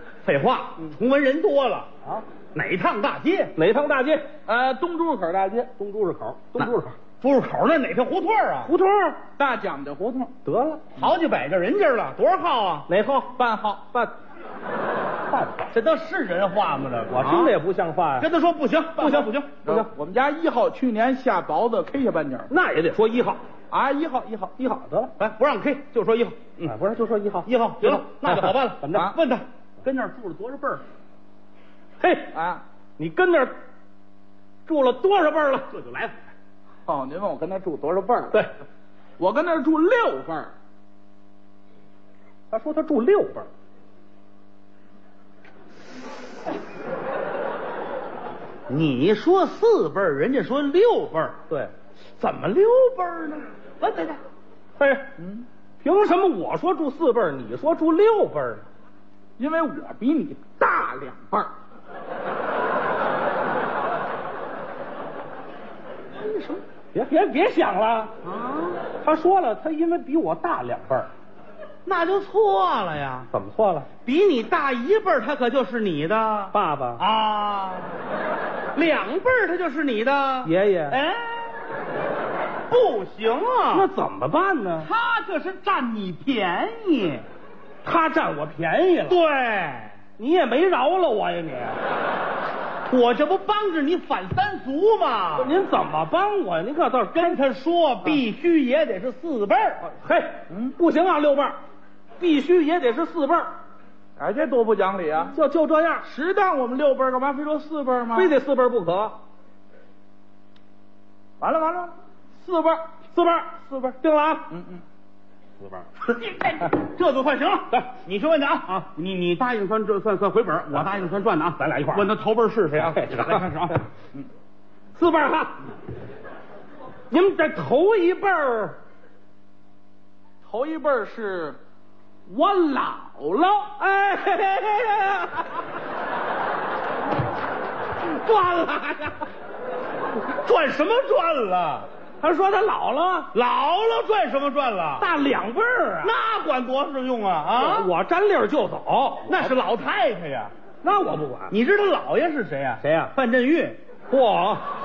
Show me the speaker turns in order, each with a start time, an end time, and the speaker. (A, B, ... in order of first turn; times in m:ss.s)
0:00.2-0:01.9 A
0:02.5-0:03.5 A
0:03.5-0:04.3 B
0:04.4-0:05.7 C
0:05.8-0:07.0 B
0:06.6-0:08.7 A
0:08.6-0:09.2 B
0:09.4-0:10.3 C
0:10.4-0:10.8 B
0:11.0-0:12.9 A
0:12.9-0:13.3 B
0:13.3-0:13.9 C
0:15.3-0:15.7 B
0:15.7-0:17.6 A
0:17.1-0:18.3 B
0:18.2-0:19.6 A
0:19.0-0:19.9 B
0:19.6-0:22.5 C
0:22.5-0:23.4 B
0:23.7-0:24.5 C
0:24.6-0:25.1 B
0:25.2-0:26.8 A
0:26.6-0:29.1 B
0:27.4-0:30.8 A
0:28.9-0:29.2 C
0:32.0-0:32.3 B
0:32.3-0:32.6 C
0:33.0-0:33.5 B
0:34.6-0:36.2 B
0:36.8-0:38.4 C
0:39.2-0:40.5 C
0:42.5-0:43.5 B
0:48.7-0:51.4 A
0:52.2-0:54.2 A
0:54.8-0:55.1 B
0:55.2-0:55.4 C
0:55.8-0:58.6 B
0:59.4-1:01.5 C
1:06.2-1:06.6 A
1:06.9-1:08.1 B
1:08.2-1:08.8 A
1:09.0-1:11.1 B
1:11.8-1:13.3 A
1:13.3-1:13.9 B
1:14.0-1:18.0 A
1:16.5-1:17.0 B
1:18.7-1:21.6 A
1:20.4-1:21.0 B
1:22.7-1:23.9 A
1:23.7-1:24.9 B
1:24.8-1:27.2 A
1:27.8-1:29.2 B
1:29.1-1:30.0 A
1:30.2-1:31.8 B
1:32.9-1:35.6 A
1:35.4-1:37.4 B
1:37.1-1:39.8 A
1:39.8-1:41.5 B
1:40.5-1:40.8 C
1:42.2-1:43.5 B
1:44.2-1:45.4 C
1:45.3-1:46.0 B
1:46.0-1:48.4 C
1:48.1-1:49.2 B
1:51.4-1:52.8 C
1:53.1-1:54.5 B
1:54.5-1:54.8 C
1:56.0-2:03.8 A
2:01.6-2:02.1 B
2:02.7-2:03.8 B
2:05.0-2:05.6 B
2:07.1-2:08.8 B
2:10.4-2:11.6 C
2:12.3-2:13.8 C
2:13.9-2:15.4 B
2:18.0-2:19.2 A
2:20.1-2:21.9 A
2:22.2-2:23.3 B
2:23.3-2:25.1 A
2:25.0-2:26.1 B
2:26.0-2:27.9 A
2:27.5-2:29.5 B
2:29.3-2:30.5 A
2:30.8-2:31.5 B
2:31.5-2:33.8 A
2:32.8-2:33.1 B
2:34.1-2:34.6 B